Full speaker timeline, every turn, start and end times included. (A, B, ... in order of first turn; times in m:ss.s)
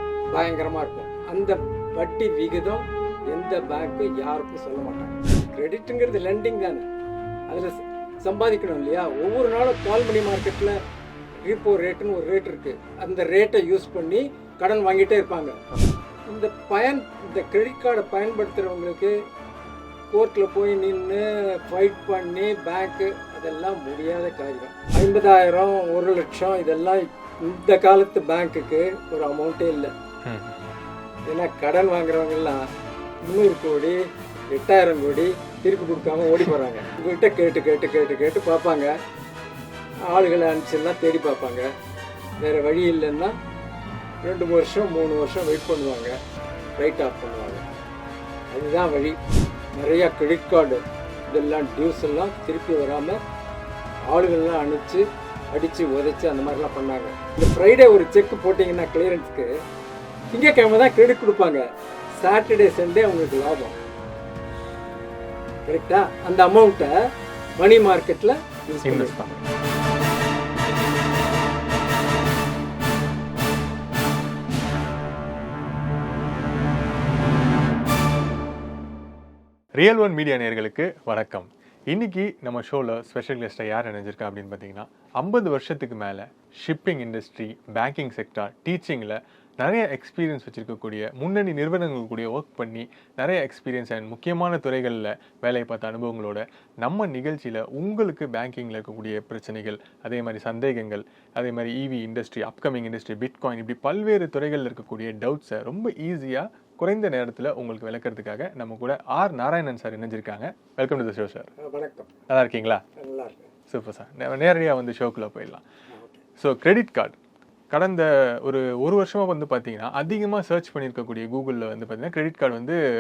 0:00.3-0:06.9 A
0:07.5-0:10.8 A
0:11.4-0:15.6 A
0:16.3-0:19.2 A
0:20.1-0:29.9 A
0:30.2-0:30.6 B
0:31.3-0:32.7 A
0:33.3-0:34.0 A
0:34.5-0:38.9 A
0:40.1-0:41.7 A
0:42.4-0:43.4 A
0:44.2-0:46.2 A
0:46.8-0:47.7 A
0:48.5-0:49.2 A
0:49.7-0:53.2 A
0:54.1-0:59.5 A
1:00.3-1:01.7 A
1:02.2-1:03.8 A
1:05.7-1:09.4 A
1:08.8-1:09.4 B
1:19.8-1:51.5 B
1:51.6-1:52.1 A
1:52.3-1:52.8 B
1:53.0-1:53.5 A
1:53.7-1:55.6 B
1:55.9-1:56.2 A
1:56.4-1:57.2 B
1:57.7-2:02.8 B